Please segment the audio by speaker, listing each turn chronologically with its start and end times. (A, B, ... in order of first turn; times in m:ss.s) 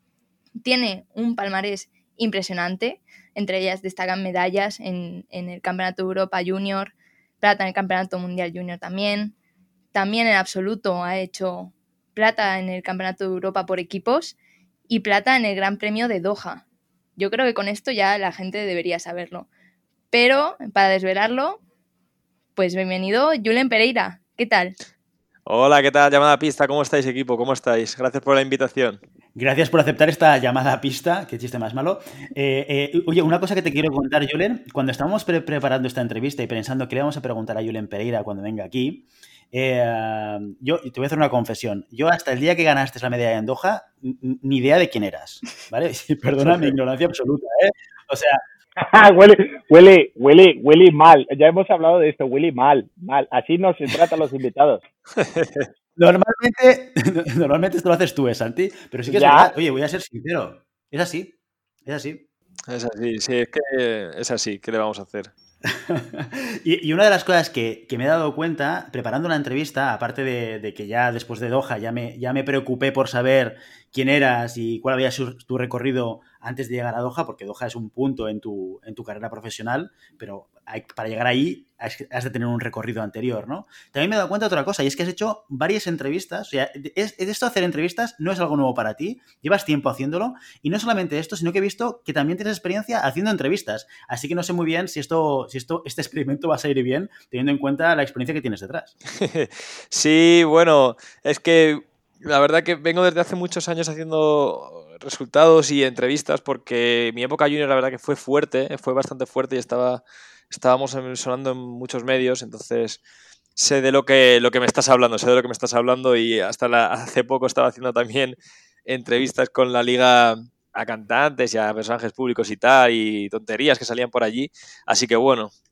0:00.6-0:09.4 A
0:09.9-0:14.4 A
0:14.9-0:16.6 A
0:17.2-0:19.5 A
0:20.1-0:21.6 A
0:22.6-0:24.8 A
0:25.5-0:29.0 B
0:29.4-0:48.4 C
0:46.4-0:46.7 B
0:48.8-0:54.8 D
0:55.2-0:55.7 B
0:56.0-1:02.2 C
0:59.1-0:59.5 D
1:02.7-1:05.3 B
1:05.7-1:39.0 C
1:39.2-1:53.0 B
1:53.6-2:05.5 B